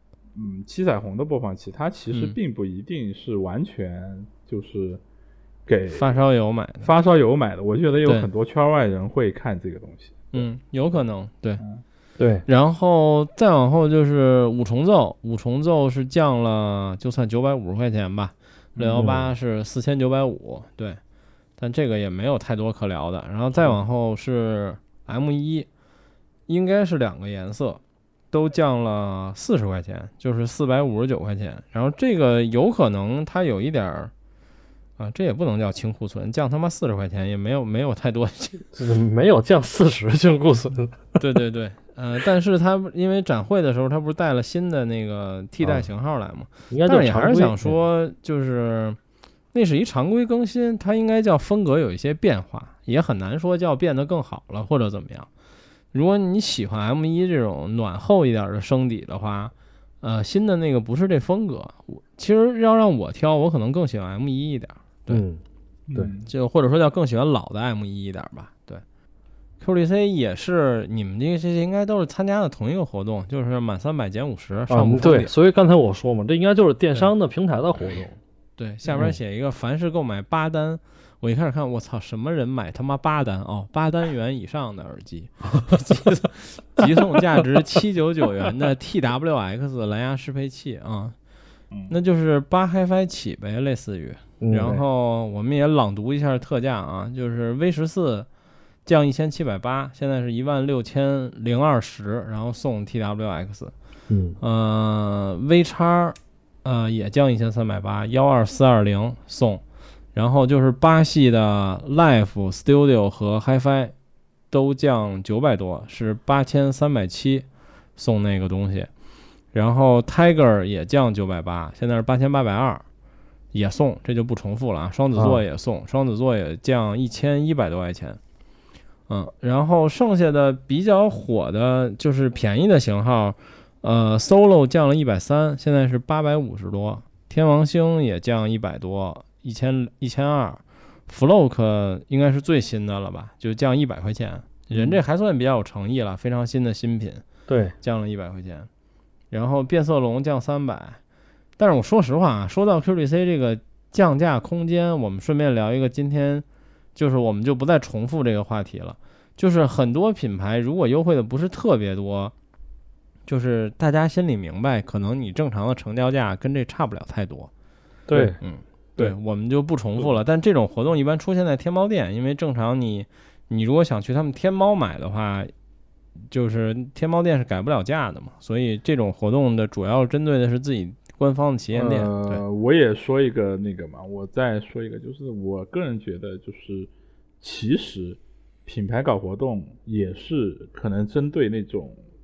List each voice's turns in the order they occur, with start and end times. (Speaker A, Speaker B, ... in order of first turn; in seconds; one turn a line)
Speaker A: 0.3-5.0
Speaker A: 5.7-6.1
Speaker B: 5.9-6.9
Speaker A: 6.8-10.4
Speaker B: 10.3-11.6
Speaker C: 12.2-12.4
Speaker B: 12.5-21.0
Speaker A: 18.8-19.2
Speaker C: 19.0-19.2
Speaker B: 21.6-25.7
Speaker B: 26.5-27.8
Speaker B: 28.3-34.1
Speaker B: 35.0-38.7
Speaker C: 38.7-41.0
Speaker B: 41.2-49.0
Speaker C: 46.7-47.8
Speaker B: 49.5-55.3
Speaker B: 55.9-65.2
Speaker C: 65.1-65.4
Speaker A: 65.9-66.3
Speaker B: 66.2-68.8
Speaker B: 69.6-75.3
Speaker C: 74.7-78.2
Speaker B: 78.6-91.1
Speaker B: 91.9-98.3
Speaker C: 94.4-94.8
Speaker B: 98.8-103.7
Speaker C: 104.1-104.4
Speaker B: 104.4-109.6
Speaker B: 110.1-113.9
Speaker B: 114.5-117.5
Speaker B: 118.0-118.9
Speaker B: 119.5-122.8
Speaker B: 123.5-128.2
Speaker C: 125.2-125.4
Speaker B: 129.1-147.2
Speaker C: 147.5-147.7
Speaker B: 147.8-148.7
Speaker B: 149.3-151.0
Speaker B: 151.6-156.4
Speaker B: 156.9-162.3
Speaker B: 163.3-167.5
Speaker C: 168.1-168.4
Speaker B: 168.4-175.5
Speaker B: 176.3-182.4
Speaker A: 181.7-192.0